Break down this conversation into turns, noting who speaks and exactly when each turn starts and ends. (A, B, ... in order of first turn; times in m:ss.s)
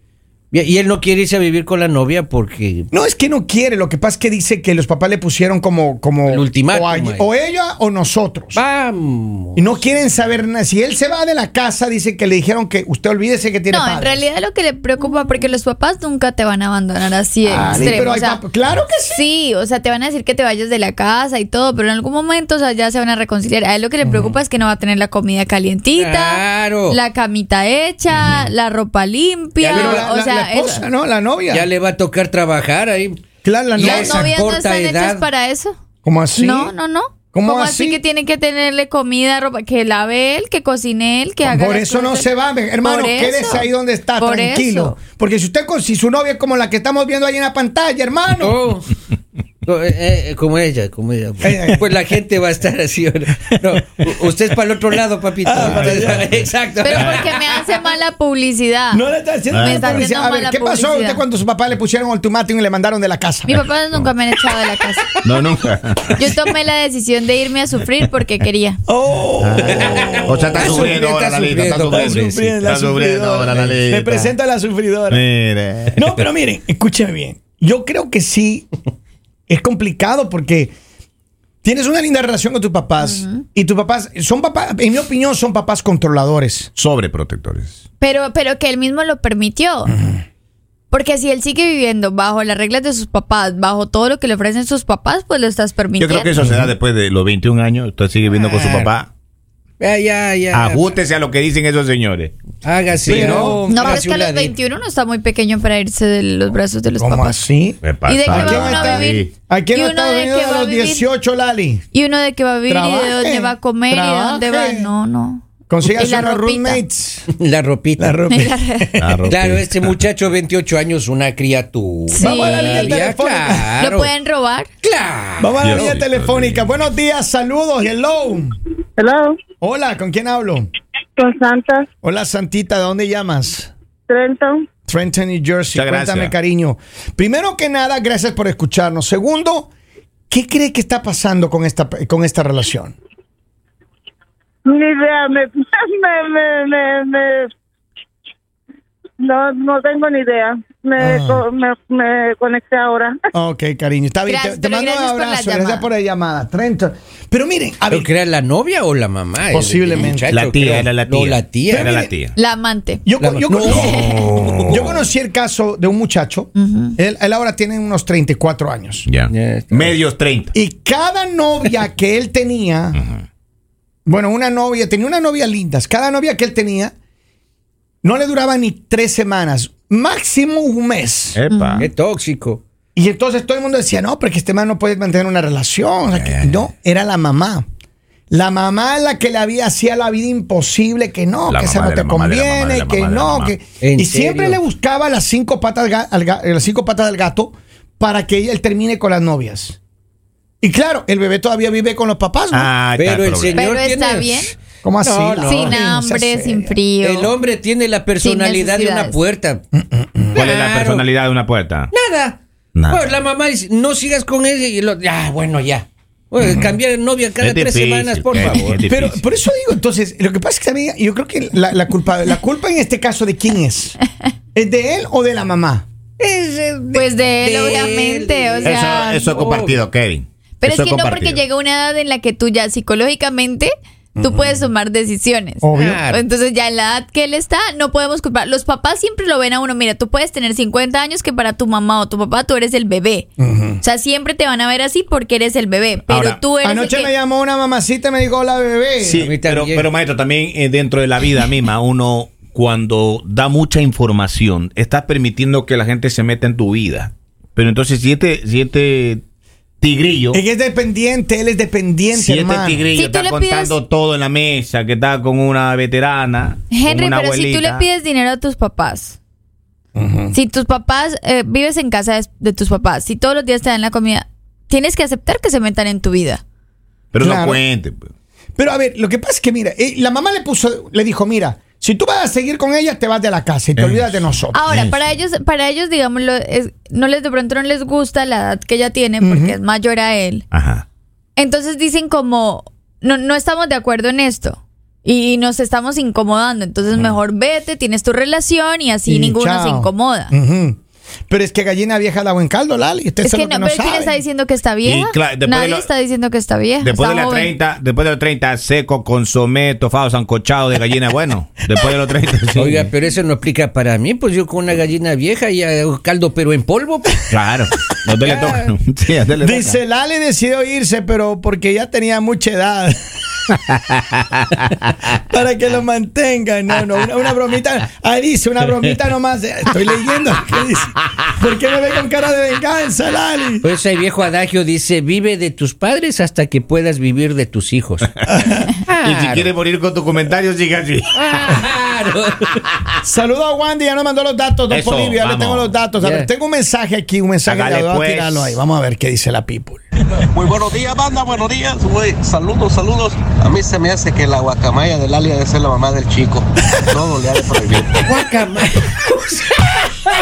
0:00.5-0:02.9 A
0:02.9-0:08.6 B
0:06.3-0:07.3 A
0:08.5-0:09.8 A
0:09.6-0:14.2 B
0:13.7-0:18.4 C
0:17.4-0:19.2 B
0:19.1-0:30.8 C
0:26.0-0:27.0 A
0:29.6-0:30.1 A
0:29.7-0:31.7 B
0:31.5-0:33.2 A
0:33.4-0:34.3 B
0:33.7-0:35.2 A
0:33.8-0:35.8 C
0:36.0-0:36.7 B
0:36.4-0:45.0 C
0:37.3-0:38.0 B
0:41.4-0:48.6 B
0:48.4-0:49.0 A
0:49.6-0:57.6 A
0:51.4-0:51.8 B
0:55.4-0:56.5 B
0:56.8-1:01.2 C
0:58.9-1:03.6 B
0:59.5-1:00.1 D
1:03.5-1:05.1 C
1:05.2-1:06.4 D
1:06.2-1:08.8 C
1:08.9-1:11.0 B
1:09.4-1:14.3 D
1:09.8-1:12.6 A
1:11.9-1:15.2 B
1:13.5-1:13.8 A
1:15.1-1:16.0 D
1:15.9-1:18.7 B
1:19.5-1:20.7 B
1:21.6-1:26.7 B
1:23.0-1:23.4 C
1:26.8-1:27.8 D
1:28.0-1:29.9 C
1:30.9-1:36.3 C
1:36.0-1:39.1 D
1:36.4-1:36.7 B
1:38.3-1:38.9 A
1:39.8-1:41.0 A
1:40.5-1:42.3 D
1:42.6-1:44.5 A
1:43.0-1:43.9 D
1:43.1-1:43.6 B
1:43.7-1:47.4 C
1:47.0-1:51.8 B
1:47.8-1:49.3 D
1:48.1-1:51.0 C
1:51.9-1:56.8 C
1:52.7-1:54.9 B
1:55.7-1:57.3 B
1:57.3-1:58.2 A
1:58.0-1:59.3 B
1:58.3-1:58.9 C
1:59.0-1:59.9 D
1:59.3-2:04.1 A
2:02.1-2:03.0 C
2:02.2-2:03.8 B
2:03.7-2:04.7 C
2:04.8-2:06.0 A
2:05.4-2:08.6 B
2:05.6-2:06.8 D
2:09.0-2:09.4 E
2:09.6-2:10.7 B
2:11.2-2:11.9 E
2:12.0-2:13.7 B
2:14.1-2:14.7 E
2:14.9-2:19.7 B
2:15.7-2:16.3 D
2:20.3-2:23.0 B
2:24.7-2:27.5 E
2:29.2-2:33.2 E
2:31.0-2:31.4 B
2:33.4-2:38.1 B
2:34.3-2:35.9 C
2:37.9-2:42.0 A
2:39.5-2:40.3 B
2:40.3-2:42.3 D
2:41.7-2:42.2 B
2:42.4-2:43.0 C
2:43.1-2:49.1 B
2:43.2-2:44.2 A
2:43.7-2:44.2 C
2:43.7-2:45.0 D
2:46.6-2:47.0 C
2:49.1-2:50.5 D
2:49.3-2:50.0 A
2:50.5-2:53.0 B
2:54.1-2:56.9 B
2:58.0-3:01.4 B
3:01.4-3:01.9 D
3:01.5-3:01.9 C
3:01.8-3:02.6 A
3:03.0-3:07.7 B
3:06.1-3:06.7 D
3:08.3-3:19.8 B
3:11.5-3:13.6 D
3:13.8-3:14.6 A
3:20.6-3:22.7 B
3:22.5-3:23.7 D
3:23.0-3:25.8 A
3:23.5-3:24.6 C
3:24.8-3:26.8 B
3:25.4-3:27.4 C
3:27.0-3:29.6 A
3:28.2-3:29.2 C
3:29.7-3:30.5 B
3:30.3-3:31.1 A
3:30.3-3:31.9 D
3:31.9-3:38.9 A
3:32.8-3:33.1 D
3:37.4-3:39.2 D
3:38.9-3:44.0 B
3:44.6-3:45.9 B
3:46.2-3:49.8 A
3:46.9-3:49.1 C
3:48.6-3:51.4 D
3:48.9-3:49.2 B
3:50.6-4:03.3 C
3:54.2-3:54.6 B
3:55.6-3:56.0 B
3:55.7-3:56.2 A
4:03.4-4:03.8 B
4:03.8-4:07.1 C
4:06.1-4:06.4 D
4:06.6-4:09.2 B
4:09.0-4:19.2 D
4:09.1-4:09.9 A
4:19.8-4:20.4 D
4:20.3-4:22.9 B
4:22.1-4:27.9 D
4:23.0-4:23.8 C
4:26.7-4:29.2 C
4:30.0-4:30.4 B
4:30.3-4:36.4 C
4:37.1-4:38.1 D
4:37.2-4:37.6 B
4:38.6-4:44.7 B
4:43.8-4:45.0 D
4:44.5-4:50.4 C
4:49.2-4:49.6 B
4:50.5-4:50.8 D
4:51.4-5:00.3 C
4:59.1-5:04.2 B
5:03.2-5:07.5 C
5:04.8-5:05.9 D
5:06.8-5:12.9 D
5:12.6-5:17.4 A
5:17.3-5:19.8 D
5:18.2-5:18.7 A
5:19.4-5:23.0 B
5:23.7-5:24.4 D
5:25.2-5:33.7 B
5:33.6-5:38.1 A
5:38.3-5:38.7 B
5:38.9-5:39.5 A
5:39.0-5:41.6 D
5:41.2-5:42.6 A
5:43.0-5:49.8 B
5:44.7-5:45.8 D
5:46.0-5:46.3 A
5:47.4-5:48.6 D
5:50.3-5:58.0 F
5:58.0-5:59.6 A